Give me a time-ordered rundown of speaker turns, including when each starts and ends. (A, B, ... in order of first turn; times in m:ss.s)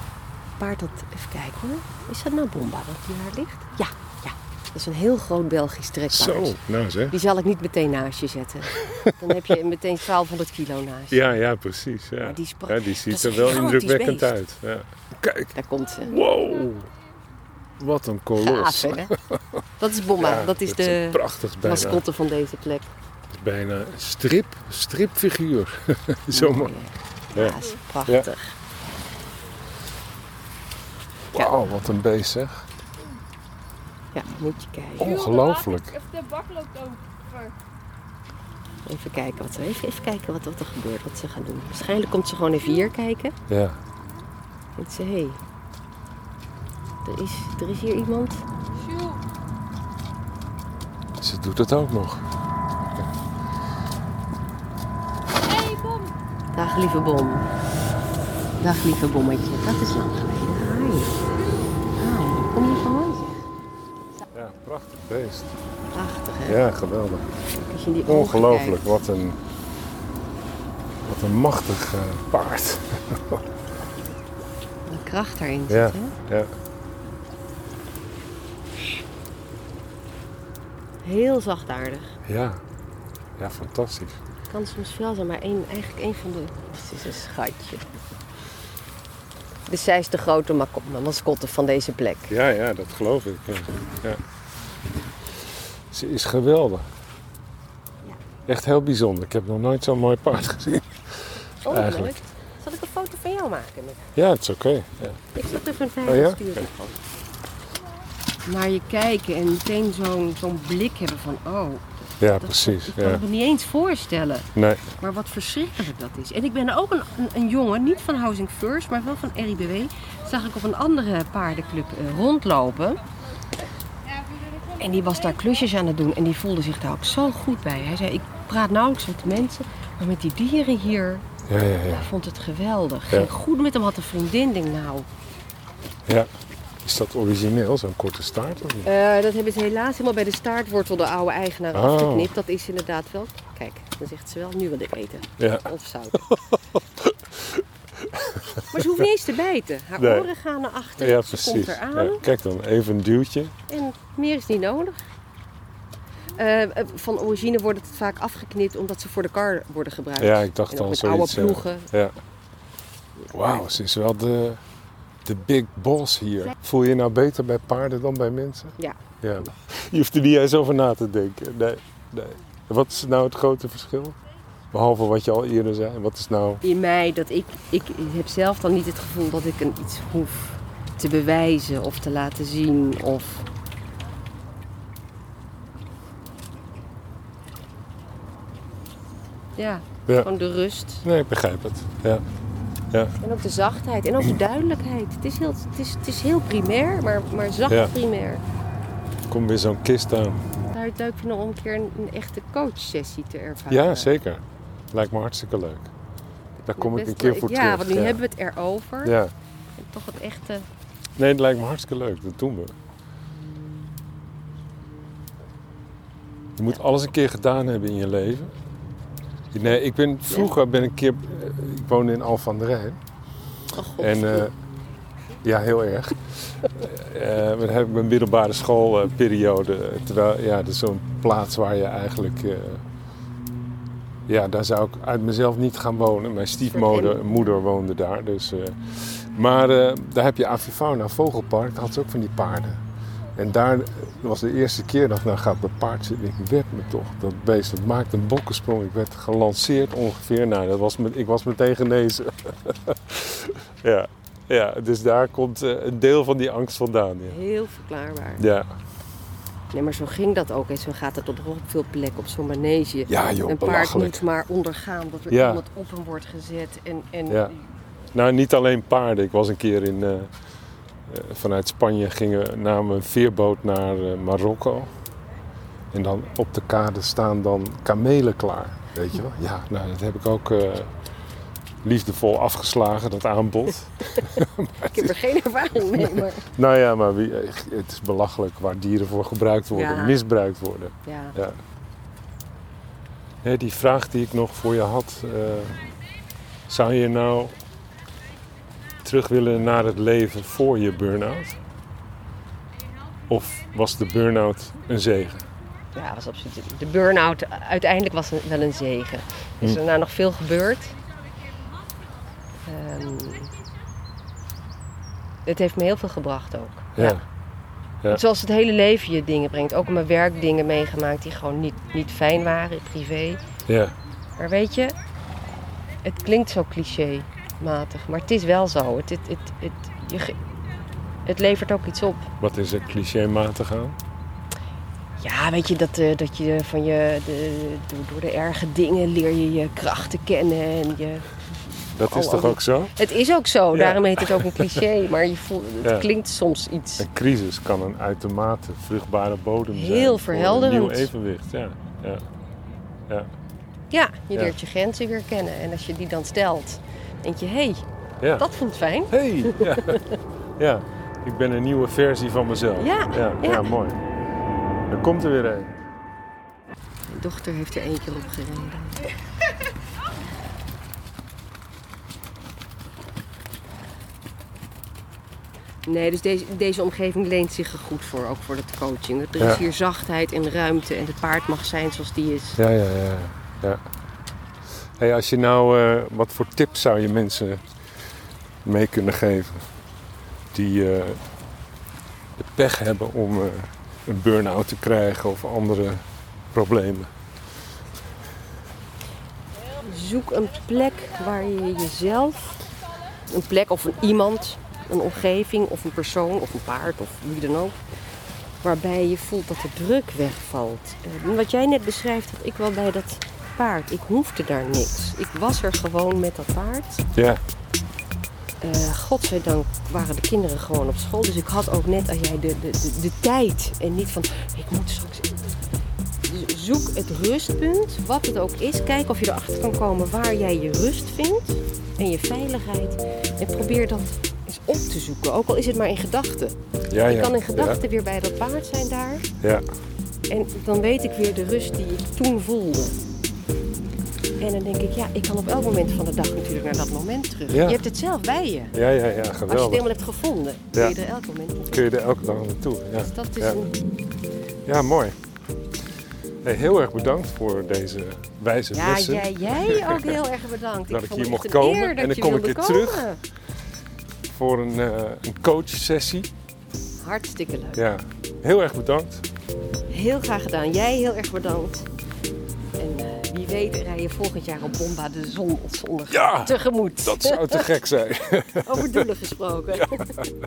0:00.6-0:11.2 A
0:06.1-0:07.1 B
0:08.8-0:09.5 B
0:11.1-0:16.9 B
0:12.2-0:14.4 A
0:15.5-0:16.2 A
0:17.8-0:22.0 B
0:18.4-0:19.1 A
0:19.8-0:22.9 A
0:23.3-0:26.8 B
0:26.3-0:28.5 A
0:27.3-0:28.3 B
0:31.3-0:32.6 B
0:34.1-0:35.1 A
0:35.0-0:35.9 B
0:35.0-0:37.5 C
0:38.8-0:43.4 A
0:43.5-0:43.8 B
0:44.8-0:45.4 A
0:47.0-0:48.4 A
0:48.8-0:49.2 C
0:51.2-0:52.2 B
0:55.4-0:56.1 C
0:56.5-0:57.4 A
0:58.6-1:01.2 A
1:02.0-1:03.4 A
1:04.3-1:05.6 B
1:05.9-1:06.6 A
1:06.5-1:07.3 B
1:07.6-1:09.0 A
1:08.0-1:09.4 B
1:11.0-1:13.4 B
1:14.8-1:16.1 A
1:15.7-1:16.5 B
1:21.0-1:22.2 A
1:22.2-1:22.6 B
1:23.4-1:24.2 B
1:24.5-1:27.8 A
1:29.7-1:32.3 A
1:32.3-1:34.2 B
1:35.9-1:36.9 B
1:38.4-1:42.2 B
1:41.6-1:44.1 A
1:44.2-1:45.2 B
1:45.3-1:47.0 A
1:46.0-1:46.6 B
1:48.4-1:51.8 A
1:52.2-1:53.2 B
1:52.4-2:03.0 A
1:54.6-1:54.8 B
2:04.8-2:11.3 A
2:11.4-2:12.1 B
2:11.9-2:15.1 A
2:16.8-2:18.9 B
2:18.8-2:26.3 A
2:21.7-2:22.3 B
2:25.4-2:25.7 B
2:26.2-2:29.0 B
2:28.7-2:32.3 A
2:30.0-2:30.3 B
2:31.0-2:33.5 B
2:33.7-2:35.0 A
2:36.4-2:41.9 A
2:40.2-2:42.1 B
2:43.2-2:43.7 A
2:43.3-2:44.6 B
2:45.2-2:54.2 B
2:54.7-2:56.6 B
2:56.6-3:03.4 A
3:09.6-3:11.0 A
3:11.0-3:12.2 B
3:13.2-3:18.4 A
3:19.3-3:20.5 B
3:20.7-3:24.1 A
3:23.7-3:25.9 B
3:26.6-3:29.2 A
3:26.7-3:28.2 B
3:29.0-3:29.3 B
3:29.8-3:30.7 A
3:31.2-3:32.7 B
3:36.6-3:38.5 B
3:39.5-3:43.0 B
3:43.7-3:44.5 A
3:44.0-3:44.5 B
3:45.4-3:52.8 B
3:54.3-4:02.8 B
3:56.7-3:57.2 A
4:03.3-4:17.4 B
4:17.3-4:18.4 A
4:18.4-4:18.7 B
4:19.7-4:27.6 A
4:23.1-4:24.2 B
4:25.3-4:25.6 B
4:27.3-4:27.5 B
4:28.1-4:30.3 B
4:31.1-4:34.9 B
4:35.9-4:40.9 B
4:41.8-4:45.2 B
4:44.8-4:46.5 A
4:45.9-4:51.6 B
4:49.7-4:50.2 A
4:51.0-4:51.4 A
4:53.4-4:55.8 B
4:56.7-4:57.6 B
4:59.0-5:01.6 B
5:03.3-5:05.4 B
5:05.9-5:11.0 A
5:12.6-5:13.5 A
5:15.4-5:17.2 A
5:17.0-5:17.2 B
5:18.1-5:23.4 A
5:23.6-5:23.9 B
5:24.4-5:24.9 A
5:26.0-5:30.4 A
5:31.2-5:32.3 A
5:32.4-5:34.0 B
5:35.2-5:47.0 A
5:42.0-5:42.9 B
5:43.7-5:44.8 B
5:45.8-5:46.1 B
5:47.0-5:52.2 B
5:49.7-5:51.1 A
5:53.9-5:57.8 A
5:58.2-5:58.4 B
5:58.4-6:00.2 A
5:59.1-6:00.0 B
6:00.6-6:04.0 B
6:02.8-6:03.7 A
6:04.9-6:05.7 B
6:07.1-6:09.1 A
6:15.8-6:22.6 A
6:22.6-6:23.8 B
6:25.0-6:27.6 B
6:28.6-6:29.6 B
6:30.5-6:31.2 B
6:32.4-6:37.1 B
6:39.8-6:42.6 A
6:43.3-6:47.8 A
6:48.6-6:57.0 A
6:57.1-6:57.4 B
6:58.6-7:05.4 A
7:06.2-7:19.3 A
7:16.9-7:17.8 B
7:20.3-7:23.0 A
7:24.4-7:28.8 A
7:27.5-7:27.8 B
7:28.7-7:29.9 B
7:29.5-7:31.9 A
7:31.7-7:33.7 B
7:33.0-7:33.7 A
7:34.6-7:35.2 B
7:36.4-7:40.2 B
7:38.7-7:43.2 A
7:40.9-7:43.1 B
7:44.3-7:46.3 B
7:47.0-7:47.8 A
7:47.8-7:49.2 B
7:49.9-7:51.9 A
7:52.8-7:57.7 A
7:56.1-7:59.1 B
7:58.6-8:00.3 A
7:59.7-8:00.3 B